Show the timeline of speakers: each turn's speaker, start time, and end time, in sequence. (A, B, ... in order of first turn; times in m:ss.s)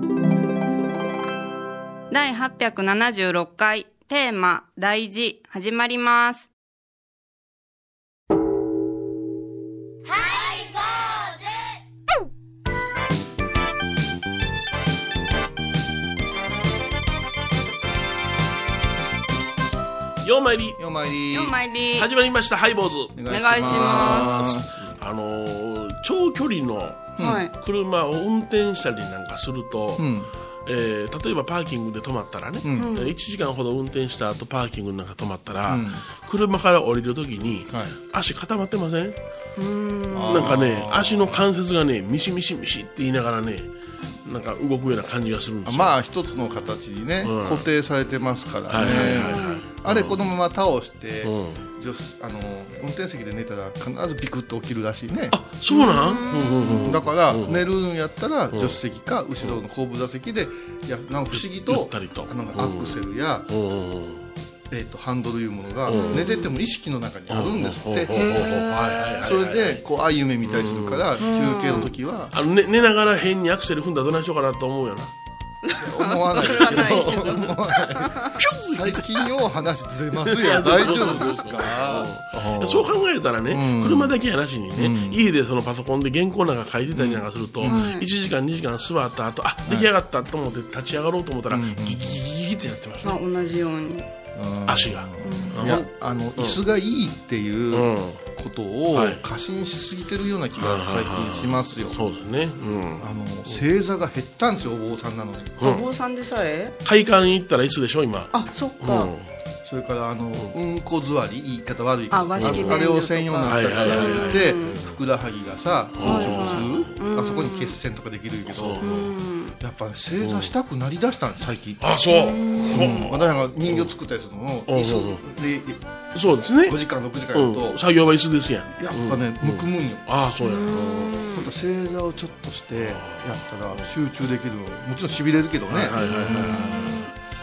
0:02.1-0:06.5 A
0:20.2-0:20.8 B
0:20.8-0:21.6 C
0:21.3-0:22.1 A
0:21.9-0:30.1 B
0:23.1-0:25.0 C
0:23.3-0:24.3 A
0:27.2-0:27.5 C
0:27.2-0:27.5 A
0:30.0-0:30.3 C
0:30.6-0:39.2 B
0:32.6-0:33.0 C
0:32.8-0:33.1 A
0:35.7-0:36.0 C
0:39.6-0:40.4 A
0:40.1-0:41.4 C
0:40.3-0:43.7 B
0:44.2-0:45.9 B
0:45.6-0:55.4 C
0:47.2-0:47.6 B
0:48.7-0:50.2 B
0:49.2-0:49.6 A
0:51.2-0:51.6 B
0:55.3-0:57.7 B
0:55.7-0:56.8 A
0:56.8-1:03.5 C
0:58.5-0:58.8 B
1:01.3-1:04.2 B
1:04.7-1:08.3 C
1:05.9-1:06.4 B
1:05.9-1:06.5 A
1:07.3-1:09.8 B
1:08.1-1:08.9 A
1:09.2-1:12.4 C
1:10.4-1:15.1 B
1:11.2-1:11.9 A
1:15.7-1:18.3 A
1:15.8-1:24.2 C
1:16.4-1:17.5 B
1:18.3-1:19.4 B
1:20.2-1:33.2 B
1:24.8-1:25.2 C
1:26.9-1:27.9 C
1:27.6-1:28.0 A
1:31.5-1:32.2 C
1:33.0-1:34.1 A
1:34.3-1:42.0 C
1:34.7-1:36.6 B
1:35.2-1:35.6 A
1:37.7-1:38.2 B
1:38.9-1:39.2 B
1:40.6-1:43.1 B
1:43.0-1:45.8 C
1:45.6-1:45.9 B
1:45.6-1:46.7 A
1:46.8-1:49.2 B
1:48.3-1:49.1 A
1:49.6-1:58.9 C
1:52.1-1:54.8 A
1:52.4-1:52.9 B
1:53.4-1:55.0 B
1:56.0-1:56.9 B
1:56.0-1:57.8 A
1:58.5-1:59.1 B
1:58.8-1:59.5 A
1:59.6-2:01.8 C
2:00.2-2:00.5 B
2:01.8-2:03.9 B
2:02.1-2:02.7 A
2:02.7-2:05.8 C
2:04.7-2:05.2 B
2:06.1-2:06.8 B
2:06.6-2:07.8 C
2:07.3-2:11.3 B
2:08.7-2:10.1 C
2:10.4-2:11.4 A
2:11.2-2:17.0 C
2:12.8-2:13.9 B
2:15.7-2:17.1 B
2:16.0-2:17.1 A